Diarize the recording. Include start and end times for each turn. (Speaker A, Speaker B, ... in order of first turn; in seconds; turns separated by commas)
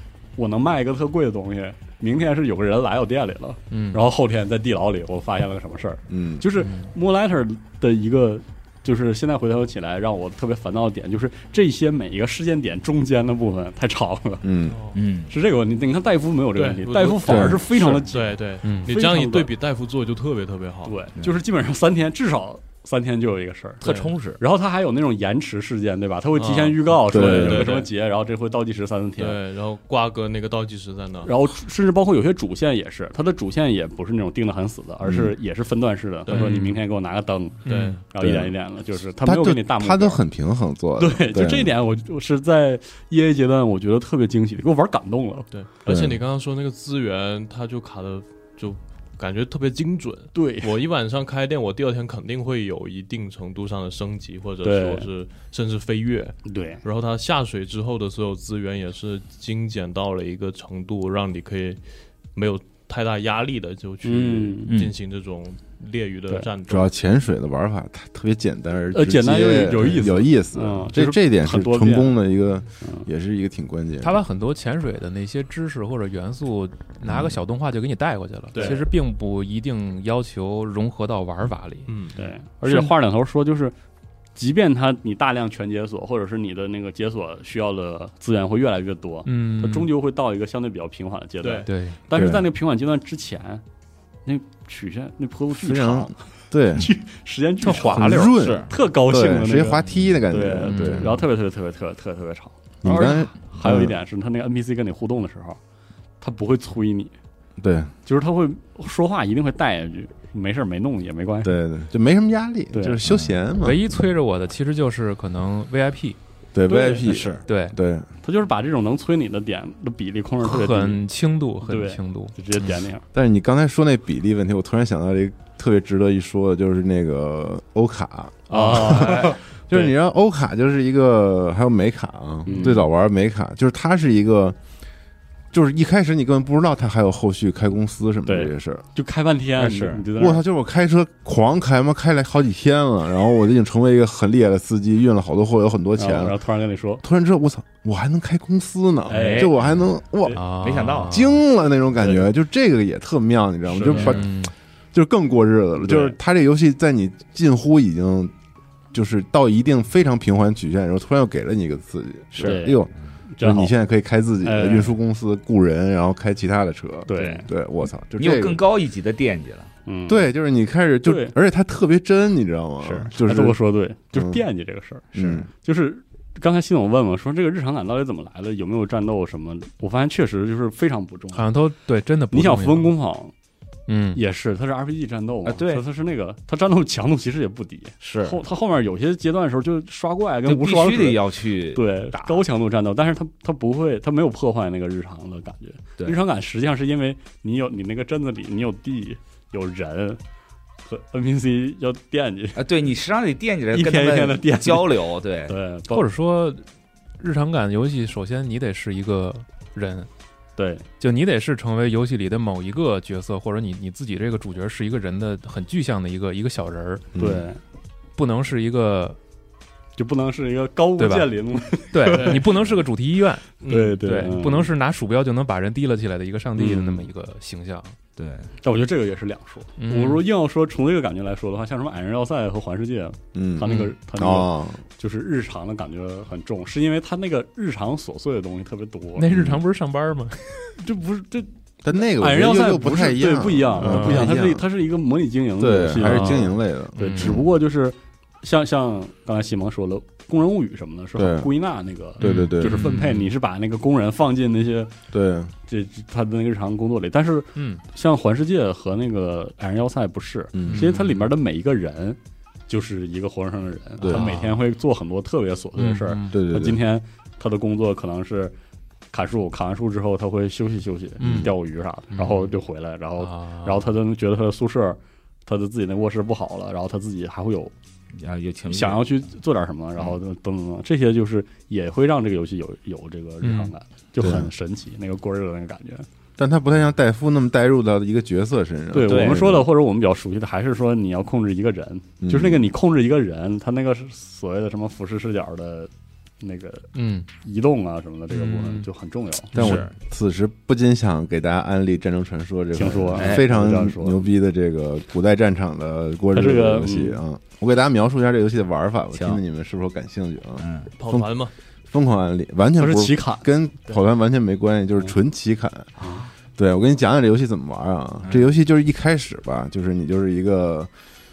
Speaker A: 0.4-14.5, Speaker B: 3.7-4.1, Speaker C: 6.1-6.4, Speaker B: 6.6-6.9, Speaker C: 14.4-14.8, Speaker D: 14.7-15.0, Speaker E: 14.9-15.3, Speaker A: 15.3-19.5, Speaker D: 16.6-21.0, Speaker C: 17.3-17.6, Speaker B: 18.6-19.0, Speaker A: 20.9-29.4, Speaker E: 23.8-24.4, Speaker D: 23.8-24.1, Speaker D: 26.4-27.9, Speaker C: 27.1-27.7, Speaker D: 29.2-31.3, Speaker A: 31.2-40.2, Speaker C: 35.0-35.4, Speaker D: 36.3-36.7, Speaker B: 36.3-36.8, Speaker B: 37.7-38.0, Speaker D: 37.7-38.0, Speaker C: 38.2-38.5, Speaker C: 39.2-41.7, Speaker A: 41.0-45.5, Speaker D: 45.5-61.8, Speaker C: 45.9-46.2, Speaker A: 50.3-50.7, Speaker A: 54.6-55.1, Speaker A: 56.5-56.8, Speaker D: 62.4-66.9, Speaker A: 64.0-64.7, Speaker C: 66.7-74.2, Speaker A: 68.9-72.1, Speaker A: 72.8-73.1, Speaker B: 74.0-81.9, Speaker C: 77.1-77.4, Speaker D: 78.5-78.8, Speaker D: 81.9-82.2, Speaker A: 82.2-83.8, Speaker B: 82.6-82.9, Speaker A: 84.4-93.6, Speaker B: 89.2-89.9, Speaker D: 91.4-91.7, Speaker B: 91.7-92.0, Speaker C: 92.1-92.5, Speaker A: 94.3-96.2, Speaker C: 95.5-96.9, Speaker A: 96.8-105.6, Speaker B: 97.6-98.3, Speaker C: 97.8-101.1, Speaker E: 98.4-98.7, Speaker B: 100.7-101.2, Speaker C: 102.8-104.0, Speaker A: 106.2-107.1, Speaker C: 107.6-107.9, Speaker A: 108.1-111.6, Speaker C: 111.4-113.8, Speaker A: 112.7-113.0, Speaker E: 113.1-113.4, Speaker B: 113.6-116.2, Speaker C: 116.5-118.1, Speaker A: 116.7-117.3, Speaker E: 117.1-117.4, Speaker B: 117.5-117.8, Speaker A: 118.2-121.0, Speaker B: 120.4-122.7, Speaker A: 121.6-123.0, Speaker C: 123.1-134.6, Speaker A: 128.5-129.9, Speaker B: 128.7-129.3, Speaker A: 132.5-132.9, Speaker C: 135.5-138.8, Speaker A: 138.3-140.4, Speaker E: 139.6-140.0, Speaker C: 140.1-146.4, Speaker A: 146.0-147.0, Speaker C: 147.0-150.4, Speaker A: 149.1-149.5, Speaker E: 149.1-149.6, Speaker B: 150.3-151.4, Speaker E: 150.5-151.2, Speaker C: 151.1-154.4, Speaker A: 152.0-152.3, Speaker A: 153.7-154.2, Speaker B: 153.9-154.5, Speaker C: 154.9-158.3, Speaker A: 155.8-156.2, Speaker C: 158.9-168.6, Speaker E: 162.4-163.2, Speaker A: 162.4-163.7, Speaker A: 164.4-165.0, Speaker A: 167.1-167.5, Speaker E: 167.2-167.5, Speaker E: 168.2-169.7, Speaker A: 169.9-170.3, Speaker C: 170.1-173.6, Speaker A: 171.0-171.4, Speaker E: 172.8-173.1, Speaker A: 173.2-181.5, Speaker C: 174.1-174.4, Speaker C: 175.1-175.5, Speaker E: 175.2-175.4, Speaker B: 181.3-182.9, Speaker A: 182.3-183.3, Speaker B: 183.9-184.2, Speaker A: 184.1-200.2, Speaker E: 185.4-185.8, Speaker E: 188.0-188.4, Speaker E: 190.4-192.4, Speaker A: 200.8-202.6, Speaker E: 202.6-205.6, Speaker A: 203.7-206.1, Speaker B: 205.9-206.6, Speaker B: 207.2-210.1, Speaker A: 210.6-210.8, Speaker B: 211.0-217.1, Speaker C: 217.1-217.4, Speaker A: 217.2-217.6, Speaker B: 218.2-219.2, Speaker A: 220.0-222.4, Speaker B: 221.0-221.3, Speaker B: 221.9-228.0, Speaker D: 222.1-222.5, Speaker D: 223.6-224.0, Speaker A: 223.7-224.7, Speaker A: 226.6-227.1, Speaker E: 228.2-228.5, Speaker A: 228.6-239.3, Speaker B: 229.8-230.2, Speaker C: 233.3-234.8, Speaker B: 239.2-240.7, Speaker C: 239.3-239.6, Speaker A: 240.8-254.9, Speaker C: 241.8-244.7, Speaker B: 243.8-244.3, Speaker C: 245.6-247.4, Speaker B: 246.0-247.4, Speaker C: 251.2-251.5, Speaker B: 252.2-253.3, Speaker C: 252.2-252.8, Speaker C: 255.1-255.5, Speaker A: 255.7-268.6, Speaker B: 257.6-257.8, Speaker C: 260.6-260.9, Speaker B: 260.6-261.3, Speaker C: 264.0-264.3, Speaker B: 264.1-264.6, Speaker B: 265.8-266.4, Speaker C: 266.3-266.8, Speaker A: 269.1-277.7, Speaker B: 271.2-271.5, Speaker C: 271.2-271.5, Speaker B: 272.1-272.5, Speaker B: 273.2-273.9, Speaker E: 278.2-279.1, Speaker A: 278.7-286.1, Speaker B: 283.4-283.7, Speaker C: 284.2-284.5, Speaker C: 286.4-289.7, Speaker A: 288.9-296.9, Speaker E: 289.0-289.5, Speaker C: 292.2-292.7, Speaker B: 296.9-297.3, Speaker A: 297.4-299.6, Speaker B: 298.3-298.9, Speaker E: 299.6-299.9, Speaker C: 299.6-311.3, Speaker A: 302.8-304.2, Speaker E: 303.2-303.5, Speaker A: 306.3-307.2, Speaker E: 309.1-309.4, Speaker E: 310.6-310.9, Speaker D: 311.0-311.5, Speaker C: 311.9-315.9, Speaker A: 312.8-313.4, Speaker E: 316.0-316.3, Speaker C: 316.6-320.9, Speaker E: 318.2-318.5